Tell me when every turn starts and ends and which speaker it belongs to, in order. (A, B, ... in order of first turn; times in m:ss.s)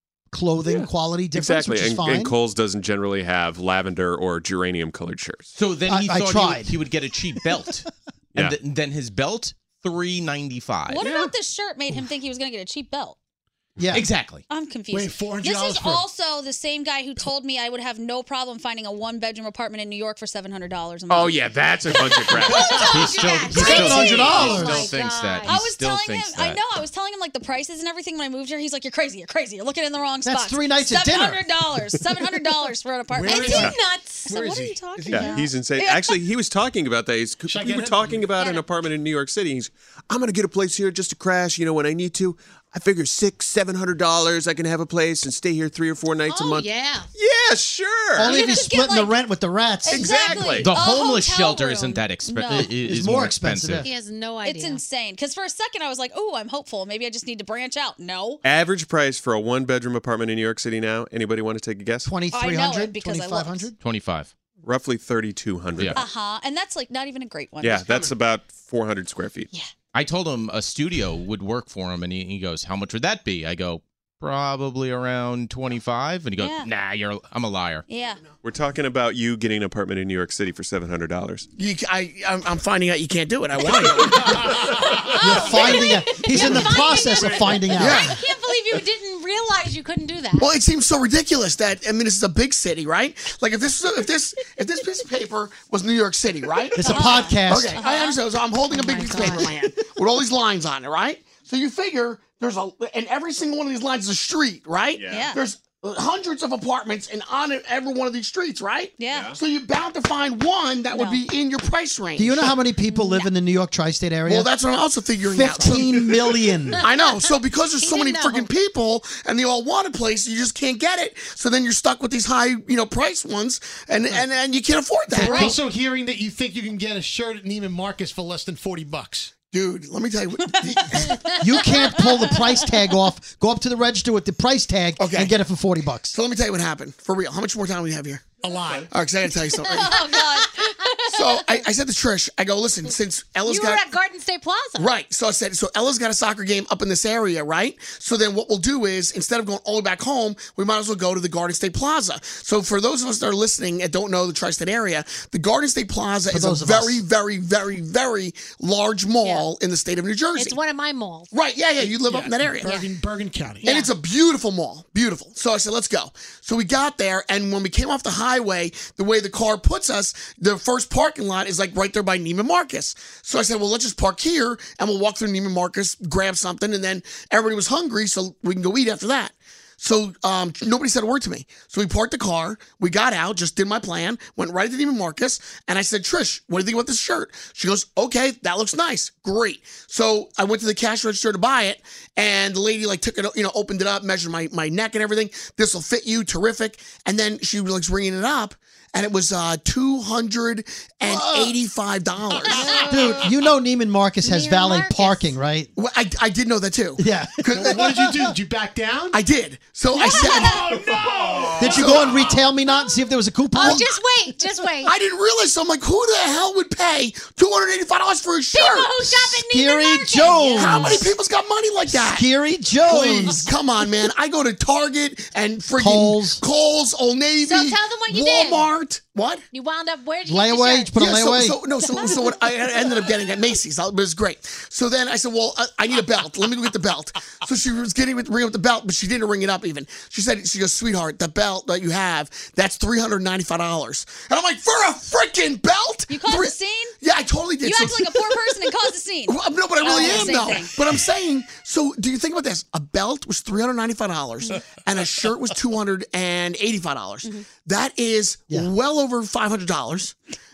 0:00.3-0:02.4 A
0:00.6-0:05.5 B
0:05.5-0:11.0 C
0:05.8-0:06.8 A
0:10.9-0:13.2 D
0:13.8-0:14.1 A
0:13.9-0:14.4 C
0:14.5-0:21.5 D
0:14.9-0:16.0 E
0:21.1-0:22.5 B
0:21.9-0:23.5 E
0:22.3-0:25.7 F
0:22.3-0:26.7 C
0:22.4-0:23.0 D
0:23.6-0:24.9 A
0:25.4-0:36.2 D
0:30.2-0:31.9 A
0:33.1-0:35.4 E
0:33.2-0:35.0 F
0:35.1-0:48.3 B
0:37.5-0:38.4 E
0:38.4-0:38.6 F
0:46.3-0:47.1 F
0:48.1-0:50.4 A
0:48.2-0:49.2 D
0:49.8-0:52.7 D
0:49.9-0:50.7 B
0:50.6-0:53.9 C
0:52.6-0:53.9 A
0:53.8-0:54.8 F
0:54.4-0:58.4 D
0:58.4-1:02.1 B
1:02.0-1:03.8 A
1:02.3-1:03.7 D
1:03.8-1:04.3 C
1:04.6-1:06.0 B
1:05.8-1:06.0 C
1:05.9-1:08.1 D
1:07.6-1:09.5 B
1:09.9-1:17.8 C
1:16.4-1:16.7 D
1:17.9-1:18.2 D
1:18.4-1:21.5 B
1:21.6-1:24.6 G
1:24.3-1:25.0 E
1:25.2-1:30.5 F
1:25.2-1:28.1 A
1:27.8-1:28.1 G
1:30.4-1:52.5 G
1:36.7-1:37.8 A
1:36.8-1:38.2 D
1:37.1-1:37.8 F
1:38.7-1:39.5 F
1:45.0-1:45.2 B
1:45.0-1:45.4 D
1:49.0-1:49.3 D
1:50.9-1:51.2 D
1:52.2-1:54.5 A
1:52.9-1:53.3 D
1:54.3-2:05.5 G
1:55.2-1:56.8 A
1:56.8-1:57.2 F
1:57.8-1:58.5 F
2:05.2-2:09.3 E
2:05.2-2:05.5 A
2:09.5-2:11.2 G
2:11.4-2:16.1 A
2:11.8-2:12.6 D
2:15.0-2:15.4 G
2:16.1-2:19.8 G
2:18.4-2:18.9 E
2:19.7-2:21.4 D
2:19.9-2:20.4 F
2:21.1-2:23.8 G
2:23.4-2:24.9 F
2:24.8-2:40.6 G
2:36.2-2:37.0 A
2:40.3-2:41.3 F
2:41.3-2:42.8 G
2:41.8-2:43.7 E
2:43.6-2:43.9 F
2:43.8-3:22.9 G
3:22.8-3:25.7 A
3:24.2-3:25.3 F
3:25.7-3:27.7 G
3:27.0-3:28.3 A
3:27.6-3:29.2 E
3:29.1-3:30.5 G
3:30.0-3:30.6 F
3:30.1-3:32.4 E
3:31.5-3:32.4 G
3:31.6-3:33.8 A
3:32.6-3:34.9 F
3:33.6-3:33.9 G
3:34.8-3:38.9 G
3:38.5-3:41.1 F
3:39.0-3:41.1 A
3:40.6-3:42.2 G
3:41.9-3:43.5 A
3:42.8-3:49.4 G
3:45.7-3:46.4 A
3:47.4-3:48.7 F
3:49.5-3:51.0 F
3:50.2-3:51.6 A
3:50.9-4:08.5 G
3:51.8-3:52.1 F
4:06.1-4:06.9 D
4:07.6-4:10.8 D
4:09.2-4:20.2 G